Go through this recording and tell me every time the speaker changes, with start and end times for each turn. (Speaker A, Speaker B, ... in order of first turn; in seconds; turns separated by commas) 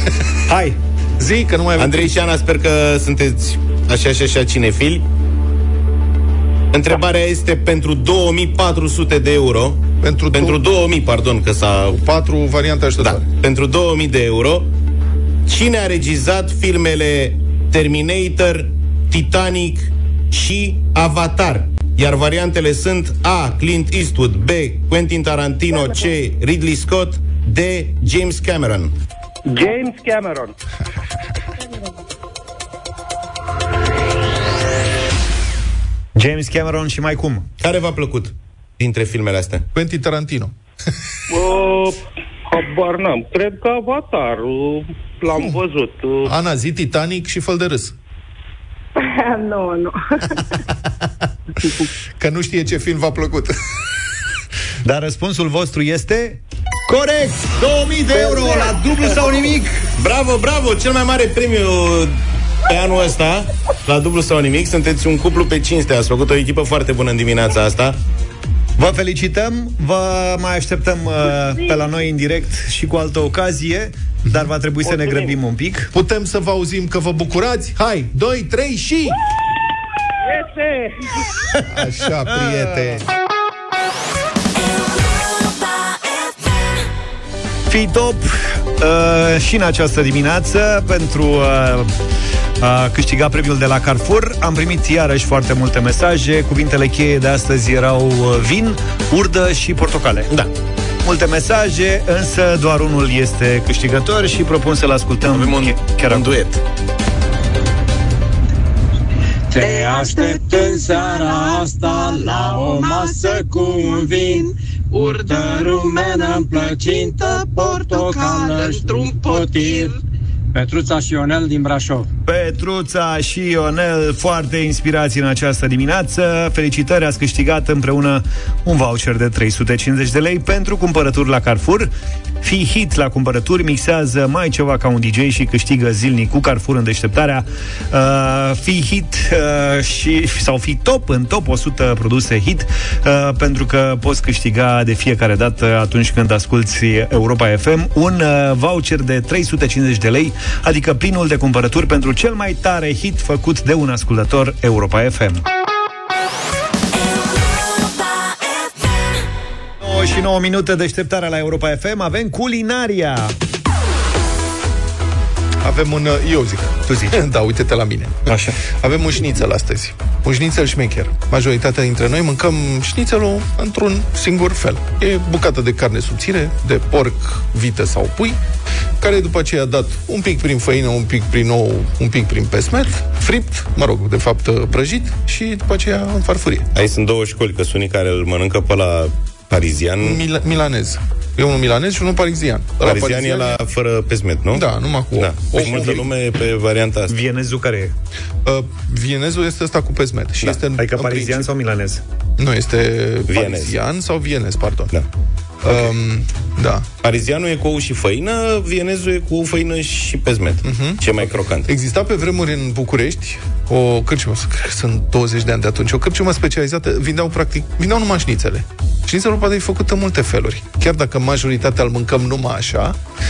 Speaker A: 0.5-0.8, Speaker B: 1.2-2.1, Speaker C: 1.8-5.0, Speaker C: 6.7-12.0, Speaker B: 10.0-10.6, Speaker B: 11.9-13.2, Speaker C: 13.0-14.7, Speaker C: 15.4-28.9, Speaker D: 29.4-30.5, Speaker A: 36.1-37.5, Speaker C: 37.6-39.6, Speaker B: 39.7-40.5, Speaker D: 41.3-46.4, Speaker B: 46.2-47.9, Speaker E: 49.0-50.6, Speaker B: 52.2-53.5, Speaker A: 54.8-59.8, Speaker E: 58.3-59.3, Speaker C: 60.0-62.1, Speaker C: 62.7-68.0, Speaker A: 68.8-75.9, Speaker B: 74.2-74.5, Speaker D: 74.8-75.4, Speaker B: 75.9-79.2, Speaker D: 80.2-81.2, Speaker B: 81.7-83.0, Speaker A: 87.7-91.9, Speaker A: 92.6-100.3, Speaker A: 101.0-106.3, Speaker C: 105.2-106.6, Speaker F: 109.5-120.0, Speaker F: 120.5-122.1, Speaker A: 122.2-131.9, Speaker A: 132.4-155.4, Speaker A: 159.8-163.3, Speaker B: 165.6-178.4, Speaker A: 166.9-167.2, Speaker A: 168.3-168.6, Speaker B: 179.0-186.7, Speaker C: 186.7-190.2, Speaker B: 190.0-193.6, Speaker C: 192.8-197.1, Speaker B: 194.5-196.1, Speaker A: 197.1-197.9, Speaker B: 198.4-201.5, Speaker A: 200.8-202.0, Speaker B: 202.4-204.9, Speaker C: 203.3-203.7, Speaker B: 205.6-206.9, Speaker C: 207.0-211.7, Speaker B: 210.6-223.0